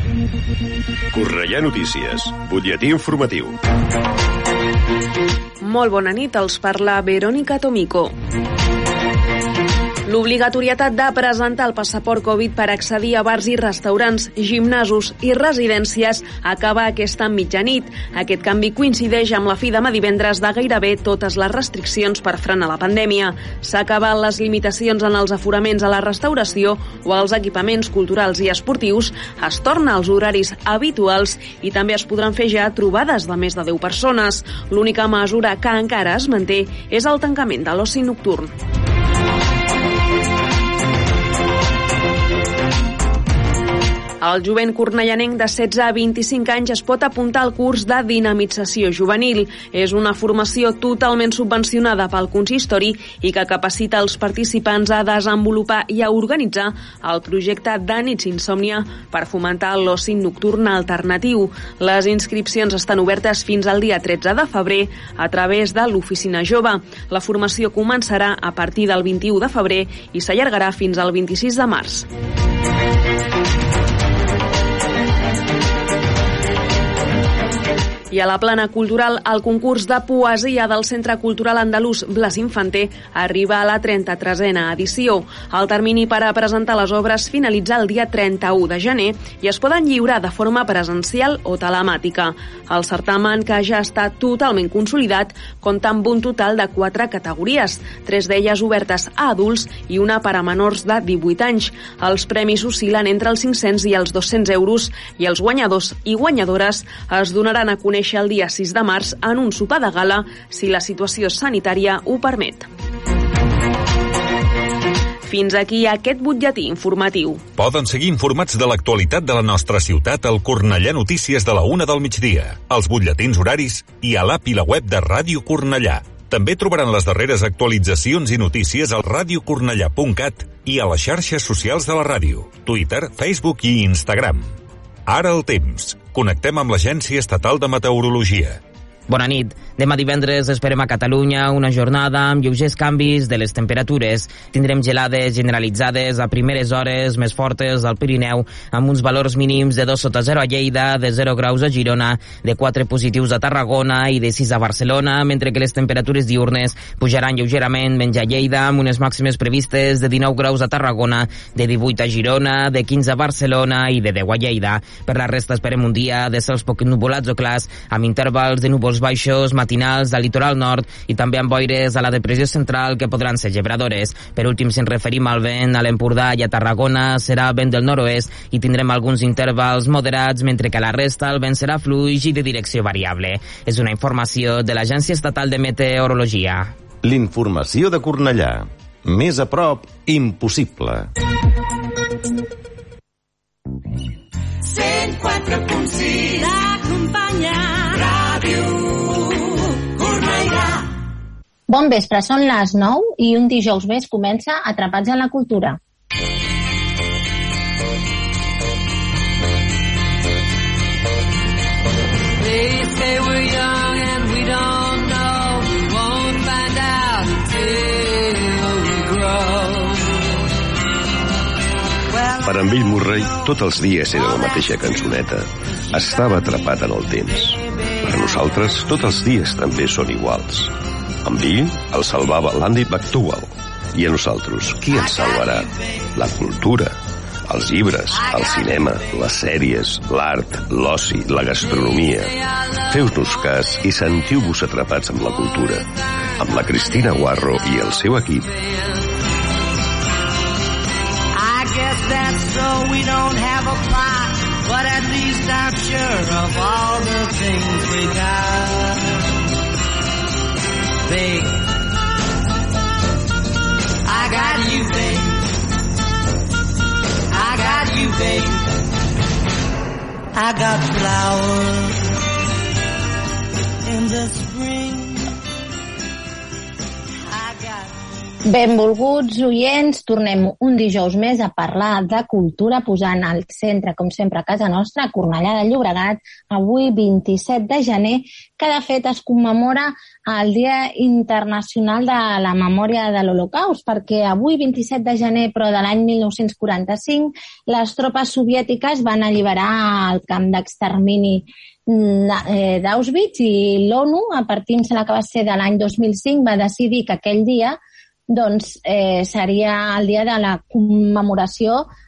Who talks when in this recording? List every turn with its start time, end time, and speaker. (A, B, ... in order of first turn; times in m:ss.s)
0:01.1-0:03.6 A
0:05.6-0:08.1 B
0:10.0-0:38.5 B
0:44.2-1:12.1 B
1:18.1-1:52.7 B
1:55.3-1:57.4 B
1:57.6-2:14.5 C
2:15.1-2:18.6 C
2:19.1-3:06.7 D
3:07.0-3:11.1 E
3:14.6-3:20.9 F
3:21.7-3:25.8 G
3:32.4-3:40.2 F
3:42.1-3:43.4 F
3:42.4-3:50.7 A
3:51.2-3:57.0 A
3:55.0-3:55.6 F
3:57.5-4:02.3 A
3:58.2-3:58.7 F
4:02.5-4:02.8 F
4:02.9-4:05.8 A
4:06.4-4:08.5 A
4:11.3-4:19.0 F
4:21.1-4:21.6 F
4:24.1-4:25.5 F
4:27.3-4:28.7 F
4:30.4-4:32.0 F
4:33.9-4:35.3 F
4:37.3-4:37.9 F
4:38.5-5:07.8 G
5:08.3-5:11.9 G